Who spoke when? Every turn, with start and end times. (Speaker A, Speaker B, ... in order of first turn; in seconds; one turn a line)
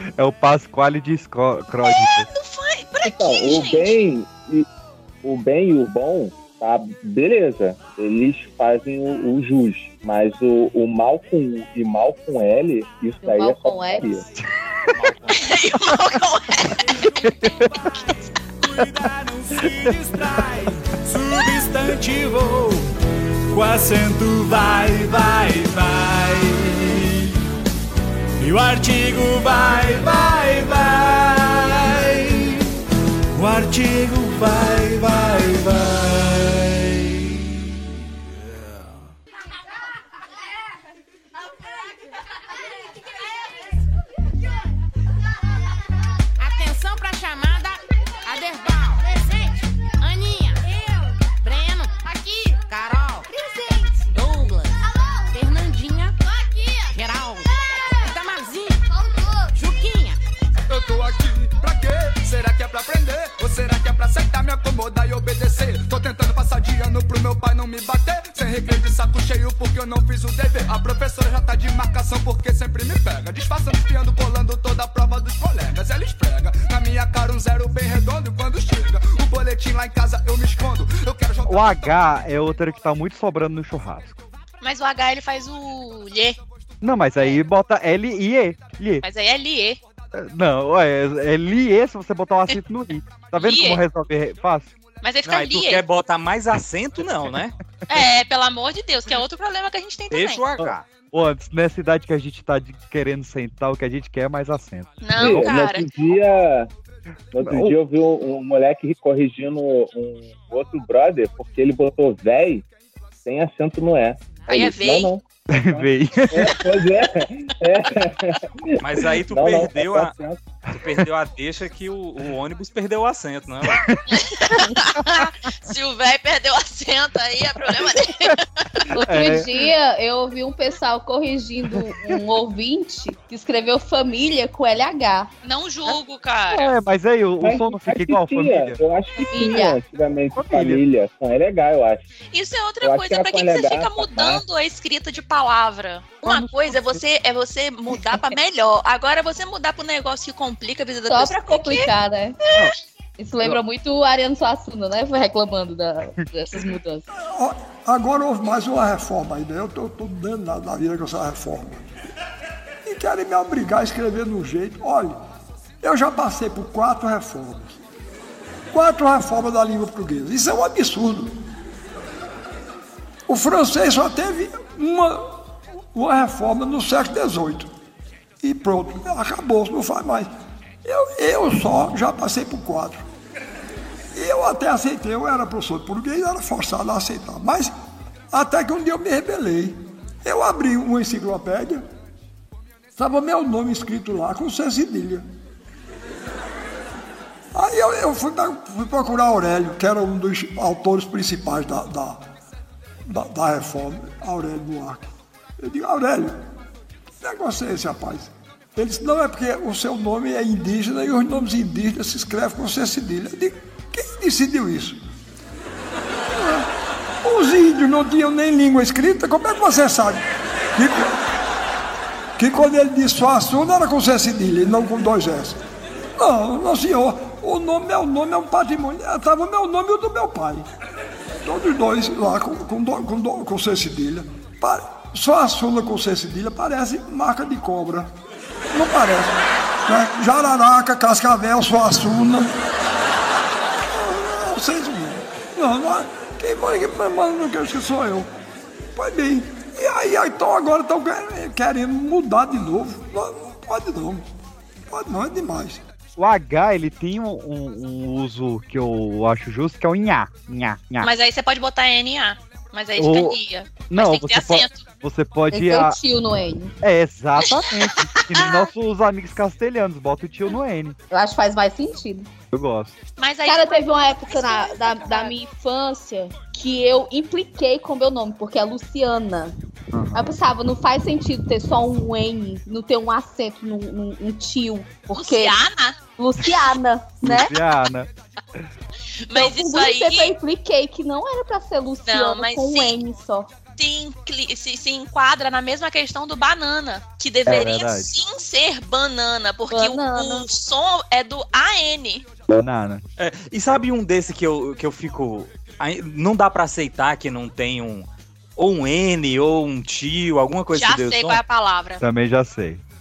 Speaker A: 0.2-2.3
Speaker B: 1.8-4.0
Speaker C: 3.0-4.7
Speaker C: 5.2-14.2
Speaker D: 13.2-14.2
Speaker E: 14.9-15.4
Speaker B: 15.3-17.1
Speaker F: 17.0-17.3
Speaker A: 17.1-17.9
Speaker F: 18.6-22.9
Speaker F: 23.5-27.3
Speaker F: 28.4-32.6
Speaker F: 33.3-37.4
Speaker G: 46.4-53.3
Speaker G: 54.0-56.2
Speaker G: 56.8-58.8
Speaker G: 59.5-60.2
Speaker H: 60.7-82.1
Speaker A: 81.4-84.2
Speaker B: 84.6-86.4
Speaker A: 86.8-89.0
Speaker B: 89.0-89.8
Speaker A: 90.1-94.7
Speaker B: 93.4-93.8
Speaker B: 95.0-95.8
Speaker E: 95.2-97.5
Speaker B: 97.9-100.5
Speaker E: 100.1-100.8
Speaker A: 100.6-105.5
Speaker B: 105.0-105.9
Speaker C: 105.2-106.7
Speaker C: 107.3-112.6
Speaker A: 107.4-107.8
Speaker C: 113.2-120.4
Speaker B: 114.5-115.1
Speaker A: 115.5-116.7
Speaker E: 118.8-120.1
Speaker E: 120.7-123.9
Speaker A: 123.8-125.2
Speaker B: 124.1-128.9
Speaker D: 128.9-135.3
Speaker A: 128.9-129.5
Speaker B: 135.4-136.7
Speaker A: 136.5-138.8
Speaker C: 137.4-142.1
Speaker D: 139.2-139.8
Speaker A: 140.3-140.8
Speaker B: 142.3-151.9
Speaker C: 142.8-144.4
Speaker A: 146.2-147.0
Speaker D: 151.1-152.4
Speaker B: 152.4-152.7
Speaker D: 153.2-157.0
Speaker I: 157.2-161.8
Speaker I: 162.8-165.2
Speaker I: 165.8-167.8
Speaker I: 168.7-171.3
Speaker I: 173.3-175.3
Speaker I: 175.9-177.7
Speaker I: 178.4-180.3
Speaker I: 180.8-183.0
Speaker I: 184.1-187.7
Speaker I: 188.3-191.8
Speaker I: 192.9-195.2
Speaker I: 197.5-202.2
Speaker I: 203.1-206.4
Speaker I: 207.2-215.0
Speaker I: 216.3-216.7
Speaker I: 217.2-221.2
Speaker I: 222.4-225.6
Speaker I: 226.2-230.6
Speaker I: 231.4-238.1
Speaker I: 238.7-242.5
Speaker I: 243.9-248.3
Speaker I: 248.9-254.2
Speaker I: 254.9-255.8
Speaker A: 256.2-261.1
Speaker B: 261.0-264.9
Speaker A: 262.9-266.0
Speaker D: 265.5-266.7
Speaker A: 266.8-271.0
Speaker B: 267.4-268.7
Speaker D: 271.1-272.3
Speaker A: 272.5-272.9
Speaker B: 273.2-275.3
Speaker D: 273.4-279.5
Speaker A: 279.9-280.3
Speaker D: 280.1-285.6
Speaker B: 285.1-286.0
Speaker D: 286.2-287.5
Speaker A: 287.2-288.1
Speaker B: 289.2-290.4
Speaker D: 289.3-293.5
Speaker B: 292.1-293.0
Speaker B: 293.8-302.2
Speaker A: 297.4-298.1
Speaker D: 299.7-300.5
Speaker A: 302.5-303.0
Speaker E: 303.2-311.4
Speaker B: 310.7-312.0
Speaker A: 312.0-312.8